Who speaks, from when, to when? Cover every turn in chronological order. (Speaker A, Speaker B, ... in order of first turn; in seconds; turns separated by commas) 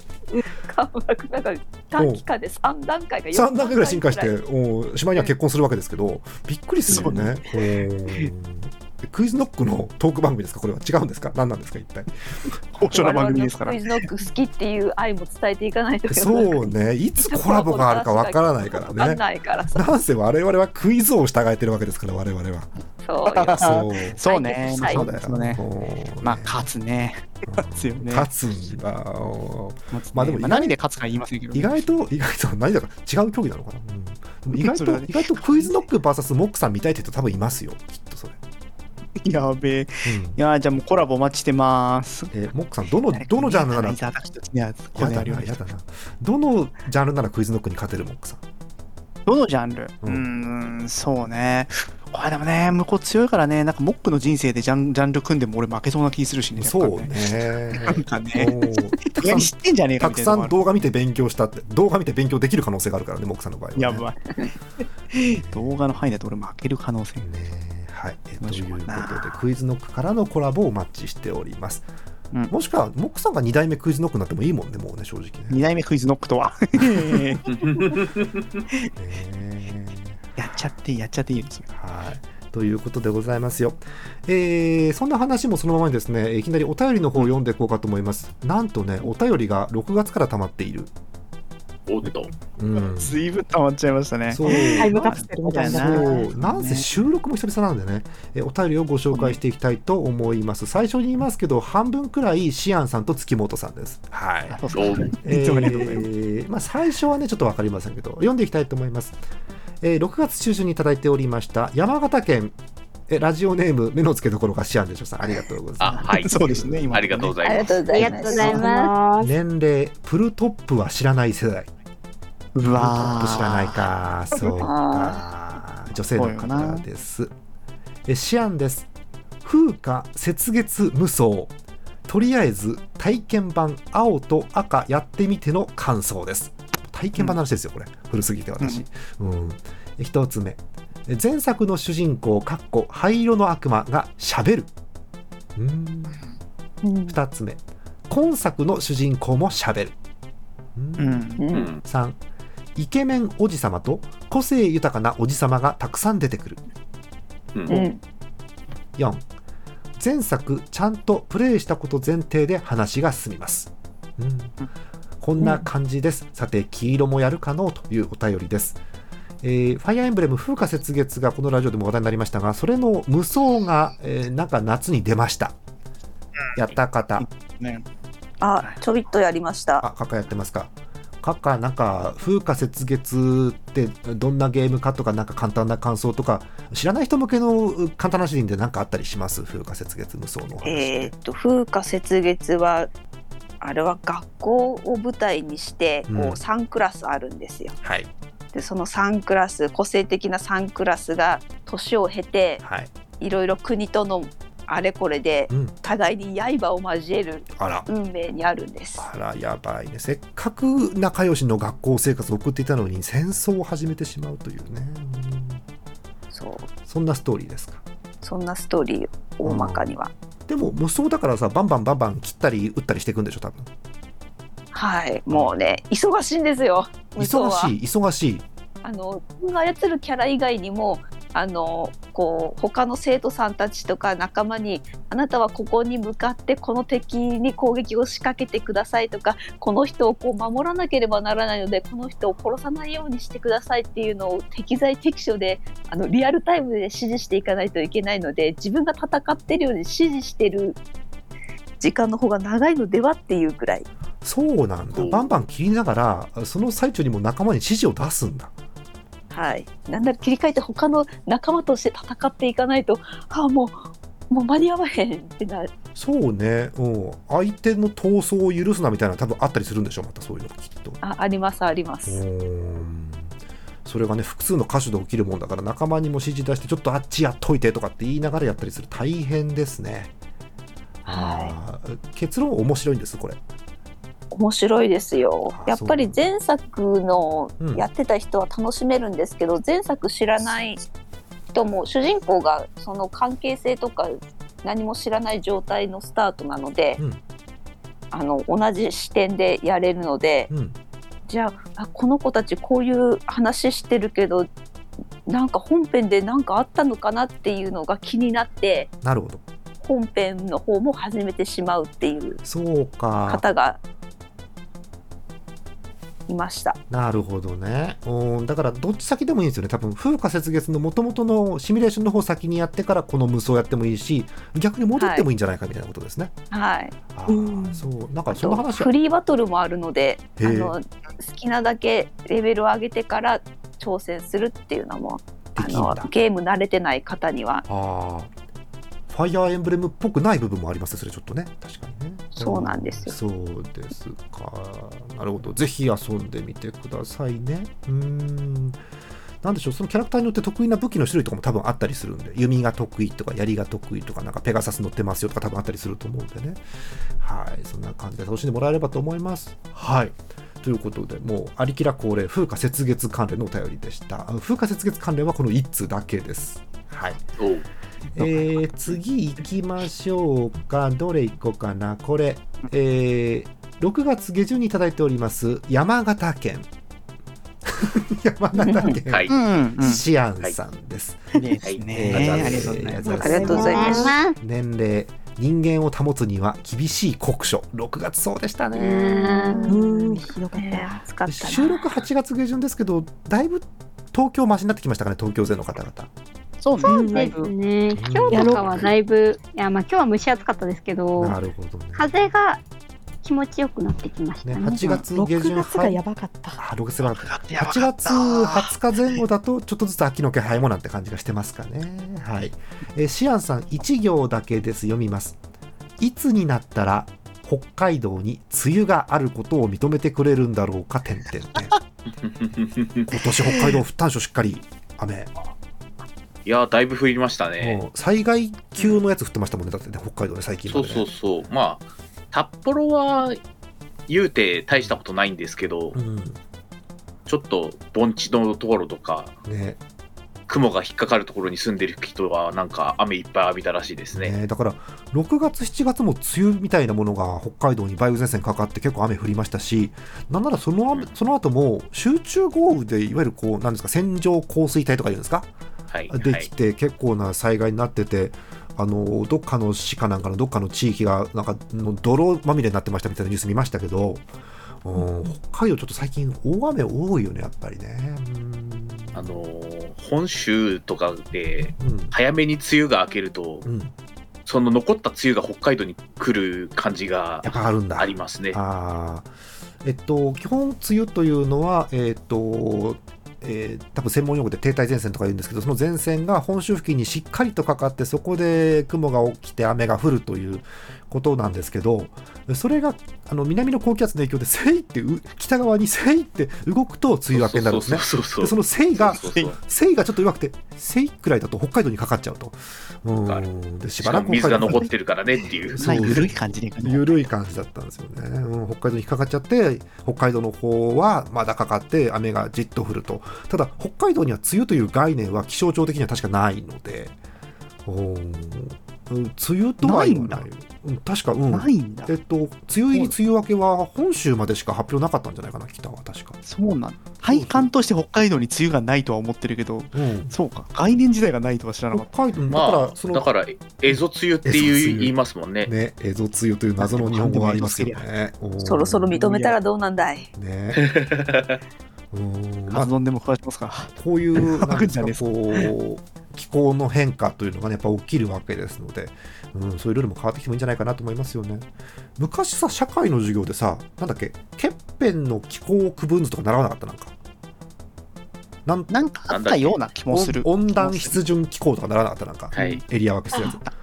Speaker A: 0.6-4.3, Speaker B: 1.9-2.2, Speaker B: 3.3-12.1, Speaker C: 6.9-7.3, Speaker D: 6.9-7.3, Speaker D: 12.7-13.8, Speaker A: 12.9-19.9, Speaker B: 16.1-19.2, Speaker B: 19.7-22.7, Speaker A: 23.0-25.0, Speaker D: 23.3-25.6, Speaker B: 23.4-24.2, Speaker B: 24.8-26.6, Speaker D: 26.2-28.3, Speaker B: 27.5-30.8, Speaker D: 29.9-31.9, Speaker B: 31.5-38.4, Speaker D: 34.5-35.9, Speaker D: 39.2-42.3, Speaker B: 40.0-40.4, Speaker B: 42.3-44.0, Speaker D: 43.1-45.6, Speaker B: 44.9-48.4, Speaker D: 49.2-57.1, Speaker B: 56.6-64.1, Speaker D: 57.7-60.6, Speaker D: 63.8-64.5, Speaker D: 65.1-67.3, Speaker B: 65.2-66.0, Speaker B: 67.2-71.8, Speaker D: 68.4-69.4, Speaker B: 72.5-75.6, Speaker D: 75.5-77.9, Speaker B: 76.9-77.3, Speaker E: 77.6-78.3, Speaker B: 79.0-80.2, Speaker D: 80.4-81.7, Speaker B: 81.7-90.9, Speaker E: 91.9-92.3, Speaker B: 92.6-93.2, Speaker D: 92.8-96.9, Speaker B: 94.3-104.6, Speaker C: 94.5-96.3, Speaker D: 99.1-99.4, Speaker D: 104.5-106.1, Speaker E: 104.7-105.1, Speaker B: 105.2-109.2, Speaker B: 109.8-112.5, Speaker B: 113.1-117.0, Speaker E: 115.8-116.4, Speaker D: 115.9-117.7, Speaker E: 116.9-117.8, Speaker A: 117.4-118.7, Speaker F: 117.9-118.9, Speaker C: 118.2-119.3, Speaker B: 119.2-121.7, Speaker D: 122.5-123.9, Speaker B: 122.7-127.3, Speaker A: 124.4-125.2, Speaker D: 126.2-126.8, Speaker B: 128.1-128.9, Speaker B: 129.4-131.5, Speaker B: 132.1-144.7, Speaker B: 145.6-146.2, Speaker A: 146.8-147.2, Speaker B: 147.1-149.9, Speaker B: 150.8-152.2, Speaker D: 151.0-151.4, Speaker A: 151.4-151.7, Speaker B: 152.8-156.6, Speaker E: 157.5-157.8, Speaker A: 157.7-158.0, Speaker B: 159.0-159.2, Speaker B: 160.0-164.6, Speaker B: 165.2-168.8, Speaker B: 169.4-175.5, Speaker B: 176.6-177.2, Speaker D: 177.2-177.8, Speaker A: 178.4-179.8, Speaker B: 179.8-191.1, Speaker A: 190.6-192.9, Speaker A: 193.6-197.8, Speaker B: 196.1-196.4, Speaker B: 197.8-198.1, Speaker A: 198.5-202.6, Speaker B: 202.6-202.9, Speaker A: 203.2-209.1, Speaker B: 207.6-207.8, Speaker B: 209.0-215.6, Speaker A: 216.3-216.7, Speaker B: 216.9-217.8, Speaker A: 218.2-220.1, Speaker B: 219.4-219.9, Speaker B: 220.5-223.7, Speaker A: 224.7-227.7, Speaker B: 225.3-225.6, Speaker B: 227.2-228.4, Speaker A: 228.8-250.8, Speaker A: 251.8-253.9, Speaker B: 254.2-258.5, Speaker E: 254.9-255.3, Speaker A: 259.3-265.7, Speaker B: 265.9-271.0, Speaker A: 271.0-272.2, Speaker B: 272.1-273.3, Speaker B: 273.8-280.1, Speaker B: 281.0-283.4, Speaker A: 281.1-281.5, Speaker A: 284.3-290.8, Speaker B: 285.5-286.3, Speaker A: 291.5-297.0, Speaker A: 298.1-300.5, Speaker B: 300.5-300.7, Speaker A: 301.3-304.5, Speaker A: 305.3-308.9, Speaker B: 309.0-309.4, Speaker A: 309.8-312.4, Speaker B: 312.4-313.4, Speaker A: 313.3-313.8, Speaker A: 316.3-316.8, Speaker B: 316.9-326.3, Speaker A: 324.9-325.3, Speaker A: 326.5-326.9, Speaker B: 327.1-328.9, Speaker C: 327.3-327.9, Speaker A: 328.3-337.6, Speaker B: 330.4-330.7, Speaker B: 335.6-336.1, Speaker B: 337.7-338.3, Speaker B: 339.1-348.8, Speaker A: 342.4-343.1, Speaker B: 349.4-356.6, Speaker B: 357.2-367.2, Speaker E: 367.4-367.6, Speaker B: 368.1-376.7, Speaker B: 377.7-381.3, Speaker A: 378.5-379.0, Speaker E: 379.0-379.3, Speaker D: 379.3-380.0, Speaker D: 381.3-383.2, Speaker E: 381.6-382.0, Speaker B: 381.9-389.0, Speaker F: 383.0-384.4, Speaker A: 383.1-384.1, Speaker C: 383.1-384.1, Speaker A: 388.7-391.9, Speaker F: 388.7-390.0, Speaker C: 389.7-391.0, Speaker B: 391.3-396.1, Speaker D: 396.6-397.5, Speaker F: 396.8-401.4, Speaker C: 396.8-397.3, Speaker B: 397.9-398.9, Speaker B: 401.2-402.3, Speaker F: 401.9-402.6, Speaker F: 403.2-405.1, Speaker B: 404.4-406.0, Speaker C: 405.1-406.6, Speaker B: 406.6-415.4, Speaker D: 407.0-409.2, Speaker B: 416.0-421.7, Speaker E: 422.2-423.1, Speaker B: 423.1-425.3, Speaker D: 423.4-423.7, Speaker E: 426.4-427.8, Speaker B: 427.6-431.1, Speaker E: 430.7-433.4, Speaker E: 434.1-435.9, Speaker B: 434.7-435.0, Speaker B: 435.9-436.4, Speaker E: 437.2-439.3, Speaker B: 439.4-439.8, Speaker E: 440.5-444.3, Speaker B: 444.1-455.5, Speaker E: 455.9-456.5, Speaker B: 456.1-464.2, Speaker B: 464.8-469.4, Speaker E: 469.1-473.7, Speaker B: 471.8-472.1, Speaker B: 473.6-473.9, Speaker E: 474.4-478.6, Speaker B: 477.4-479.3, Speaker B: 479.8-504.9, Speaker E: 497.3-499.5, Speaker E: 504.0-506.3, Speaker B: 505.7-517.1, Speaker D: 505.8-507.2, Speaker B: 517.9-526.4, Speaker D: 519.8-520.5, Speaker D: 521.5-522.1, Speaker D: 526.4-532.1, Speaker B: 527.2-527.7, Speaker B: 529.9-530.3, Speaker B: 531.9-533.3, Speaker E: 532.5-535.7, Speaker B: 533.9-539.1, Speaker D: 536.8-538.0, Speaker A: 538.6-540.3, Speaker D: 539.1-539.5, Speaker B: 540.4-540.8, Speaker E: 540.7-541.6, Speaker B: 542.1-542.9, Speaker D: 542.7-545.7, Speaker B: 544.0-557.1, Speaker B: 558.6-558.9, Speaker D: 558.9-561.2, Speaker E: 559.3-559.8, Speaker B: 560.1-563.6, Speaker D: 562.5-562.8, Speaker E: 562.5-562.8, Speaker D: 563.3-563.7